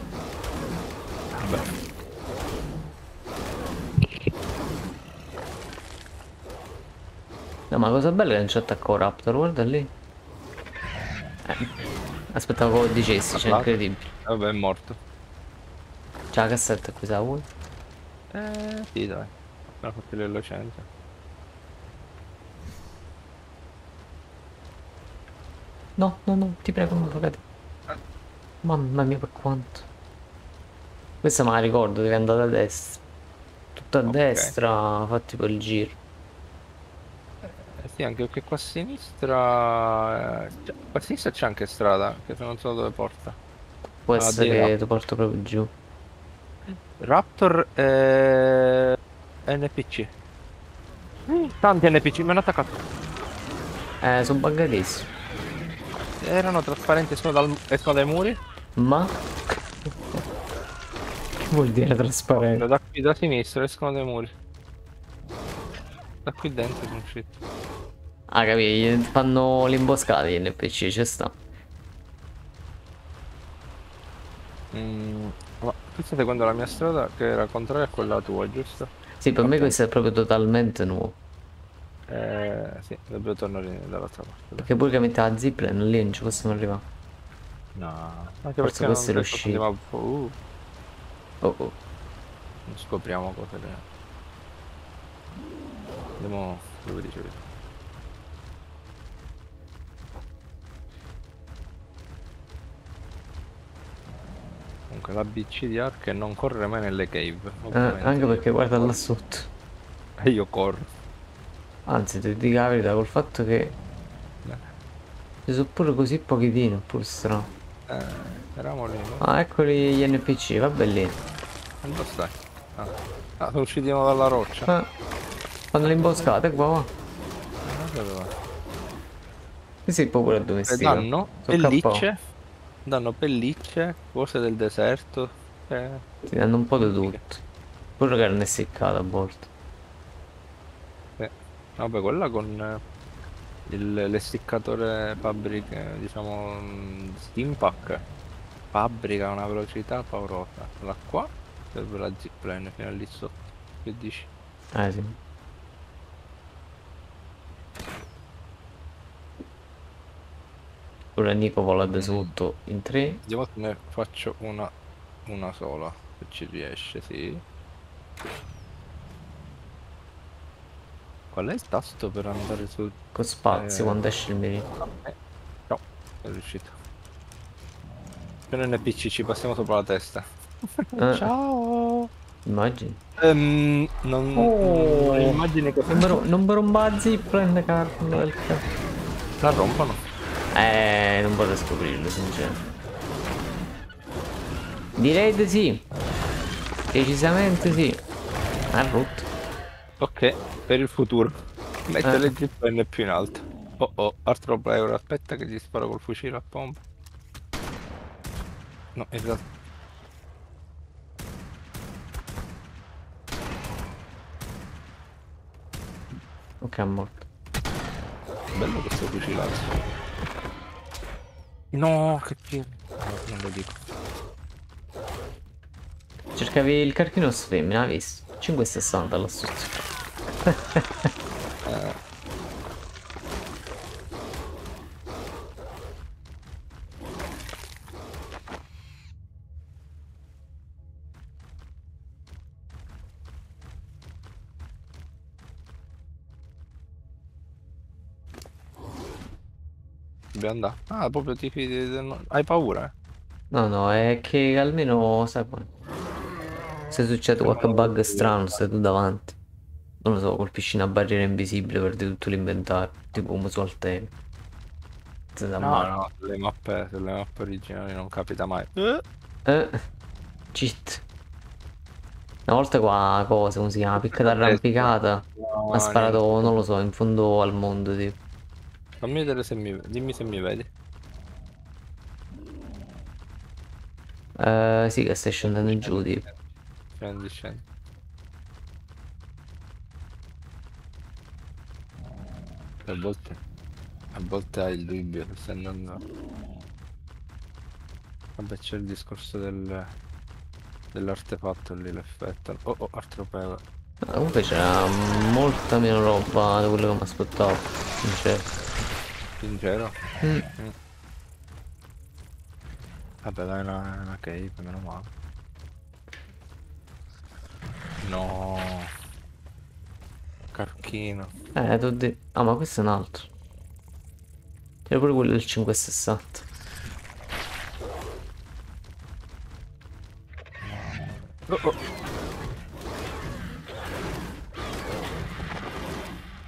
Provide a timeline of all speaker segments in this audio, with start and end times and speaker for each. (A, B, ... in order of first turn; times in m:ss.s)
0:01.4-0:01.7 A
0:07.7-0:09.9 B
0:12.3-0:14.1 B
0:13.3-0:15.0 A
0:16.3-0:17.5 B
0:18.3-0:20.9 A
0:26.0-0:27.4 B
0:28.6-0:29.9 B
0:31.2-0:33.0 B
0:33.8-0:36.0 B
0:34.1-0:34.5 A
0:37.4-0:43.4 A
0:44.1-0:45.7 B
0:44.2-0:44.7 A
0:46.7-0:49.0 A
0:49.5-0:50.1 A
0:51.3-0:52.8 A
0:54.0-0:55.1 B
0:56.2-0:58.4 A
0:58.8-0:59.2 B
1:01.4-1:02.6 B
1:02.3-1:04.3 A
1:06.2-1:07.4 A
1:08.3-1:11.4 B
1:14.7-1:19.8 A
1:19.2-1:21.2 B
1:22.1-1:24.7 A
1:24.6-1:26.8 B
1:27.8-1:30.4 A
1:28.6-1:29.6 B
1:31.4-1:31.8 B
1:32.7-1:33.8 A
1:36.2-1:37.4 A
1:44.9-1:49.0 A
1:47.7-1:49.5 B
1:50.2-1:50.9 A
1:51.9-1:53.8 B
1:55.5-1:57.5 B
1:57.9-1:59.3 A
1:59.2-2:01.2 B
2:01.8-2:04.7 A
2:05.7-2:06.9 B
2:05.8-2:06.4 A
2:07.6-2:08.3 A
2:09.9-2:12.1 B
2:10.7-2:12.1 A
2:12.9-2:16.0 A
2:16.3-2:17.4 B
2:16.8-2:17.2 A
2:18.0-2:19.5 B
2:21.2-2:22.8 A
2:23.7-2:28.0 A
2:28.7-2:34.3 A
2:34.7-2:35.2 B
2:41.2-2:43.2 B
2:41.9-2:42.3 A
2:43.3-2:44.7 A
2:45.3-2:47.4 A
2:51.3-2:53.0 A
2:53.2-2:54.7 B
2:53.5-2:54.0 A
2:54.8-2:55.1 A
2:55.7-2:56.8 A
2:58.5-3:00.2 A
3:00.8-3:02.1 A
3:01.0-3:01.3 B
3:02.5-3:03.0 B
3:03.2-3:06.2 A
3:04.4-3:05.4 B
3:05.9-3:08.6 B
3:09.4-3:10.0 A
3:10.5-3:12.6 B
3:15.0-3:15.9 B
3:16.9-3:18.0 B
3:18.7-3:19.3 B
3:20.0-3:21.4 A
3:21.9-3:26.8 A
3:22.0-3:22.3 B
3:29.0-3:29.4 A
3:36.6-3:37.3 B
3:38.6-3:39.8 A
3:41.7-3:43.8 A
3:46.4-3:49.8 B
3:50.4-3:51.1 B
3:51.7-3:52.0 A
4:10.3-4:12.9 A
4:13.5-4:15.7 B
4:16.9-4:19.4 B
4:17.4-4:18.4 A
4:20.0-4:24.1 B
4:25.4-4:25.9 B
4:25.6-4:29.0 A
4:29.5-4:29.8 B
4:30.5-4:31.0 B
4:32.5-4:38.2 B
4:34.1-4:36.6 A
4:39.0-4:40.7 A
4:44.4-4:46.2 B
4:45.4-4:46.3 A
4:47.0-4:47.6 A
4:52.8-4:53.4 A
4:54.2-4:56.0 A
4:58.4-4:59.9 A
5:00.9-5:03.6 A
5:04.0-5:08.5 B
5:09.4-5:10.0 A
5:10.2-5:10.5 B
5:13.2-5:15.1 A
5:18.0-5:18.9 A
5:20.5-5:21.3 A
5:21.6-5:23.3 B
5:24.9-5:26.5 B
5:30.6-5:31.8 A